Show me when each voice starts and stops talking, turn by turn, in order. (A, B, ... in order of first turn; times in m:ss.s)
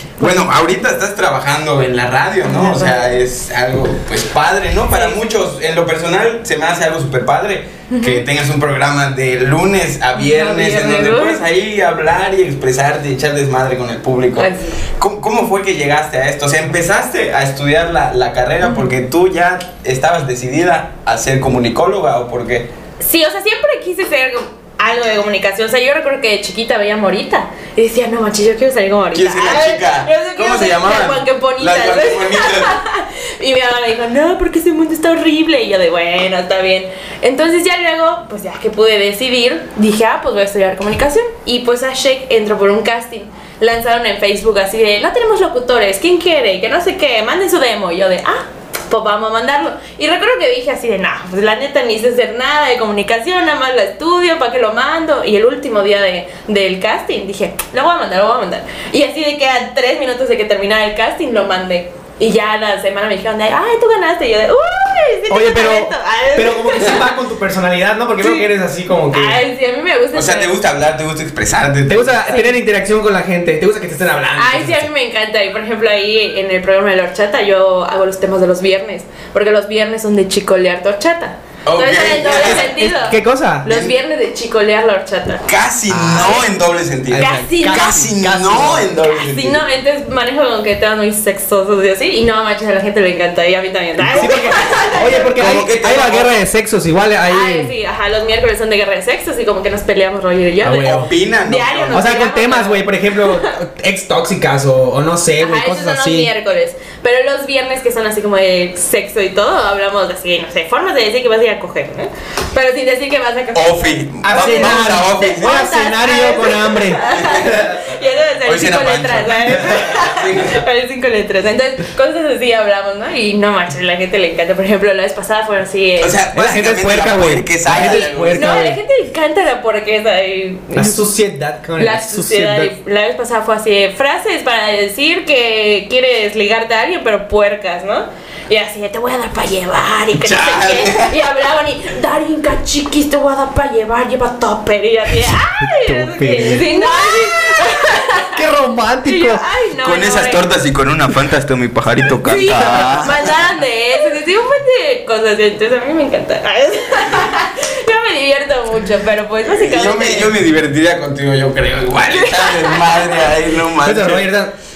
0:00.2-0:22.7 A
0:02.4-0:03.1 B
0:04.9-0:05.2 B
0:07.9-0:08.2 B
0:10.2-0:11.4 B
0:14.4-0:14.8 B
0:23.0-1:07.1 B
0:29.1-0:32.8 A
1:05.3-1:09.4 C
1:08.2-1:08.5 B
1:09.1-1:10.5 B
1:10.1-1:12.3 A
1:11.9-1:14.9 C
1:12.3-1:12.6 B
1:14.4-1:26.4 B
1:21.6-1:22.7 A
1:22.7-1:23.7 C
1:25.5-1:29.6 A
1:25.9-1:26.4 C
1:27.1-1:28.9 C
1:27.1-1:27.9 B
1:29.1-1:35.3 B
1:34.0-1:36.3 A
1:34.2-1:37.7 C
1:37.3-1:43.5 B
1:40.6-1:41.1 C
1:40.8-1:42.1 A
1:41.9-1:46.3 C
1:45.4-2:06.2 B
1:53.5-1:55.7 A
1:54.2-1:57.1 C
1:57.1-1:57.7 A
1:58.4-2:00.6 A
2:06.0-2:08.6 A
2:06.3-2:08.8 C
2:07.8-2:11.0 B
2:10.7-2:12.7 C
2:11.8-2:28.4 B
2:20.2-2:21.1 A
2:25.6-2:29.4 C
2:29.0-2:30.4 B
2:29.8-2:33.1 A
2:32.2-2:40.3 B
2:32.6-2:33.0 C
2:39.4-2:44.2 A
2:42.1-2:43.3 B
2:43.8-2:44.5 C